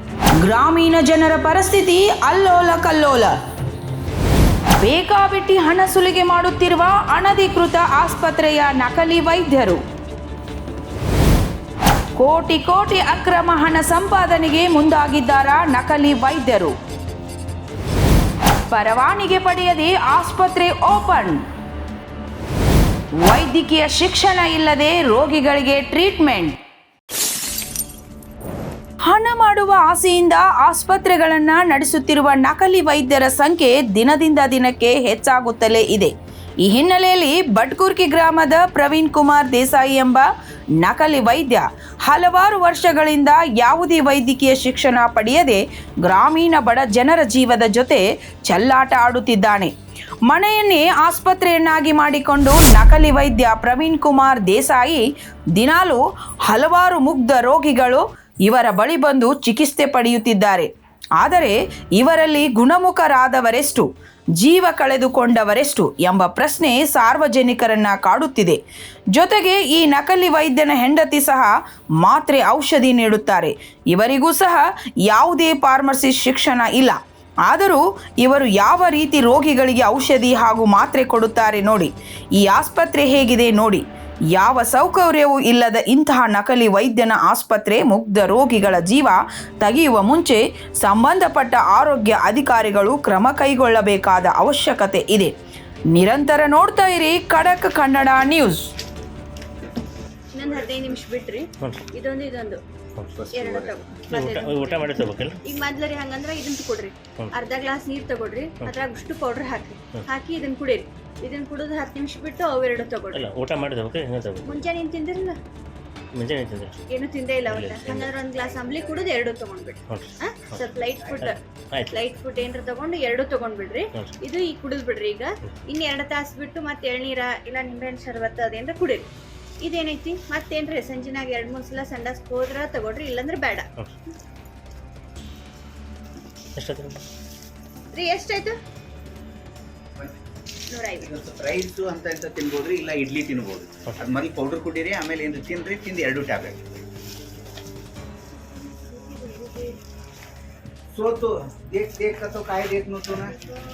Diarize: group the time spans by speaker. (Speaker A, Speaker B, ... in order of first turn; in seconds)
Speaker A: 0.4-3.4, 4.8-9.8, 12.2-16.8, 18.7-21.4, 23.2-26.6, 29.0-49.7, 50.3-68.6, 69.1-95.3, 95.9-98.7
Speaker B: 100.3-102.6, 103.3-113.3, 114.5-115.4, 116.9-121.4, 121.9-129.1, 129.6-133.7, 137.9-138.6, 140.7-141.1
Speaker C: 103.1-103.9, 141.0-146.8, 150.9-153.4
Speaker D: 104.1-105.4, 113.1-114.7, 116.1-116.8, 117.5-118.2, 121.2-122.0, 136.6-137.0